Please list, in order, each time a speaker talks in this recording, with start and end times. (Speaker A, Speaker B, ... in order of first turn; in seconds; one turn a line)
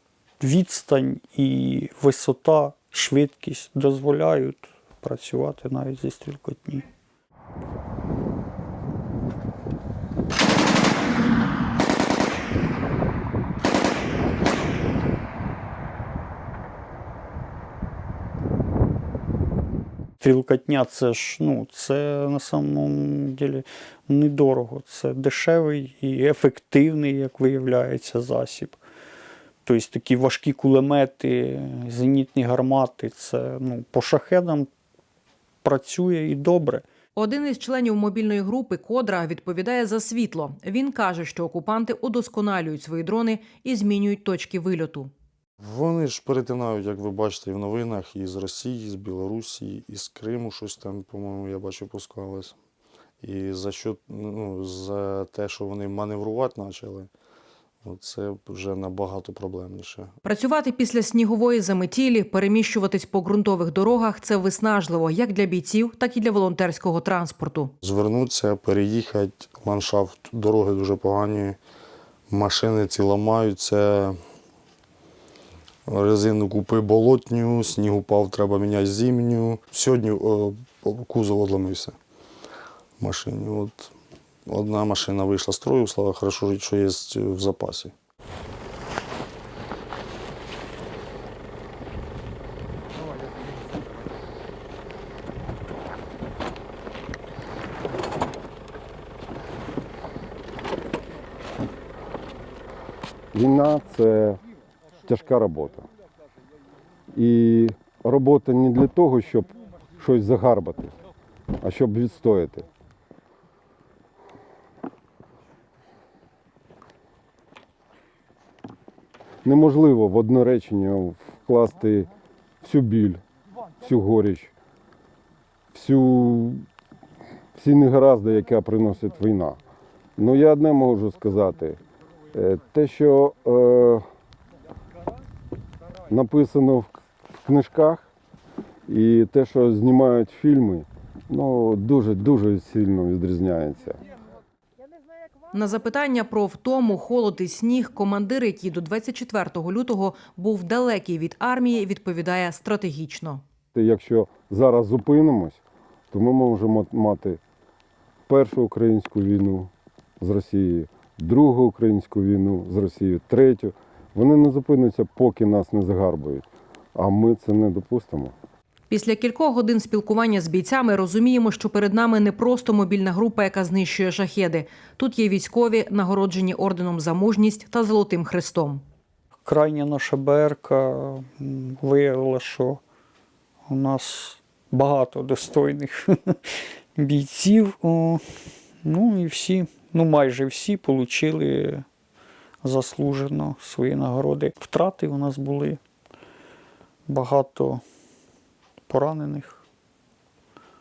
Speaker A: 0.4-6.9
Speaker A: 20.2-28.8
Speaker A: 29.6-34.7
Speaker A: 35.6-36.9
Speaker B: 37.2-45.1
Speaker C: 45.6-52.6
Speaker C: 53.2-57.1
Speaker C: 57.8-60.1
Speaker B: 60.2-67.7
Speaker C: 67.8-71.6
Speaker C: 72.3-74.2
Speaker C: 75.9-82.0
Speaker C: 83.0-83.9
Speaker C: 84.5-87.9
Speaker D: 103.3-104.4
Speaker D: 105.0-105.8
Speaker D: 107.1-111.0
Speaker D: 111.6-112.7
Speaker D: 119.5-122.1
Speaker D: 122.6-123.2
Speaker D: 123.8-124.5
Speaker D: 125.7-126.7
Speaker D: 127.6-129.6
Speaker D: 130.2-131.8
Speaker D: 132.3-134.0
Speaker D: 136.1-136.9
Speaker D: 137.4-138.1
Speaker D: 138.9-144.0
Speaker B: 145.5-153.4
Speaker D: 153.8-155.6
Speaker D: 156.1-157.4
Speaker D: 158.3-168.3
Speaker B: 168.9-178.8
Speaker A: 179.4-182.8
Speaker A: 183.7-191.8
Speaker A: 192.6-195.8
Speaker A: 197.1-197.8
Speaker A: 198.9-199.6